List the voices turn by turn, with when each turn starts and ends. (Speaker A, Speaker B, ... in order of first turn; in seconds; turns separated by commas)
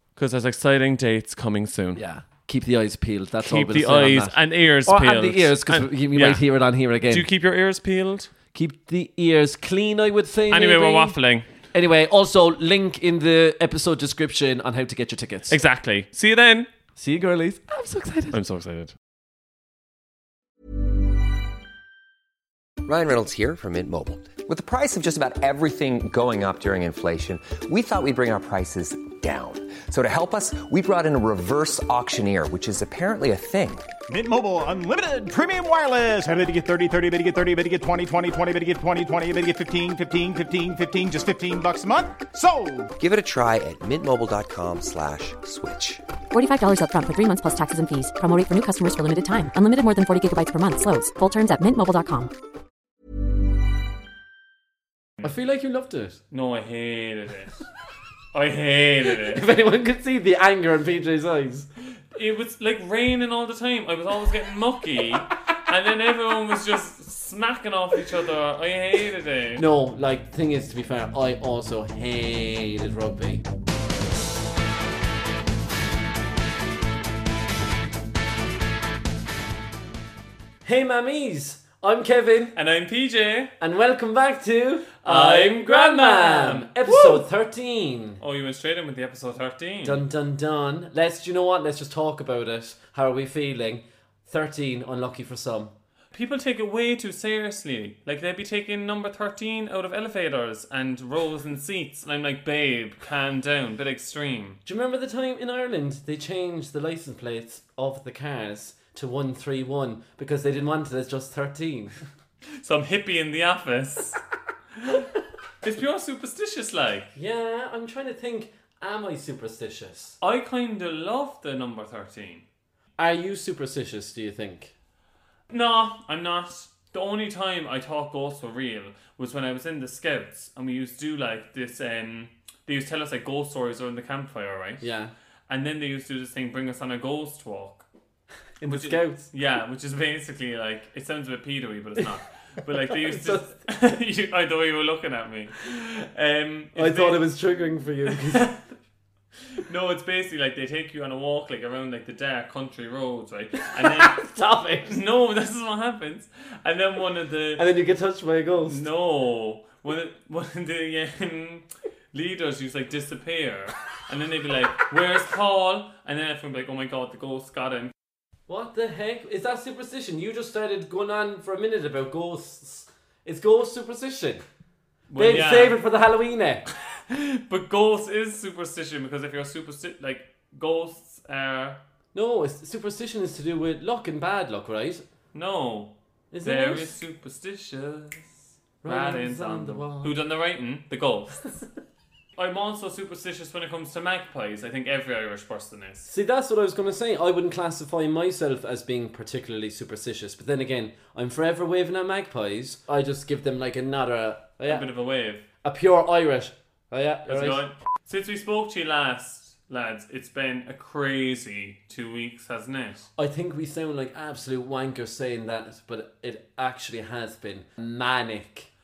Speaker A: 0.1-2.0, Speaker B: 1.9-7.3, Speaker A: 3.4-6.4, Speaker A: 7.1-8.3, Speaker B: 8.5-11.2, Speaker A: 10.5-11.5, Speaker B: 11.7-15.6, Speaker A: 15.5-16.7, Speaker B: 16.9-18.4, Speaker A: 18.3-18.9, Speaker C: 22.8-33.9, Speaker D: 34.1-42.9, Speaker C: 43.0-46.0, Speaker E: 46.3-52.3, Speaker B: 55.2-56.2, Speaker A: 56.3-57.6, Speaker A: 58.3-59.4, Speaker B: 59.3-61.7, Speaker A: 62.1-69.6, Speaker B: 69.6-73.4, Speaker B: 80.6-82.5, Speaker A: 82.5-83.5, Speaker B: 83.6-88.2, Speaker A: 85.0-87.2, Speaker A: 88.2-90.0, Speaker B: 89.8-95.7, Speaker A: 96.1-104.6, Speaker B: 104.7-111.9, Speaker A: 112.6-114.2, Speaker A: 115.6-117.1, Speaker B: 117.1-120.2, Speaker A: 120.2-122.4, Speaker B: 123.0-124.7, Speaker A: 125.5-134.8, Speaker B: 134.8-135.1, Speaker A: 135.5-137.8, Speaker B: 138.6-139.3, Speaker A: 138.6-147.2, Speaker B: 143.0-143.5, Speaker B: 146.7-148.5, Speaker A: 148.1-148.6, Speaker A: 149.7-154.2, Speaker B: 153.7-155.0, Speaker A: 154.8-157.6, Speaker B: 157.6-158.8, Speaker A: 158.7-167.9, Speaker B: 168.5-174.4, Speaker A: 175.1-175.8, Speaker B: 175.2-176.6, Speaker A: 177.0-181.8, Speaker B: 182.1-185.0, Speaker A: 185.3-191.6, Speaker B: 186.3-186.9, Speaker B: 188.8-190.1, Speaker A: 192.3-196.1, Speaker B: 196.1-204.8, Speaker A: 204.7-205.4, Speaker B: 205.6-207.6, Speaker A: 207.3-213.1, Speaker B: 213.2-218.7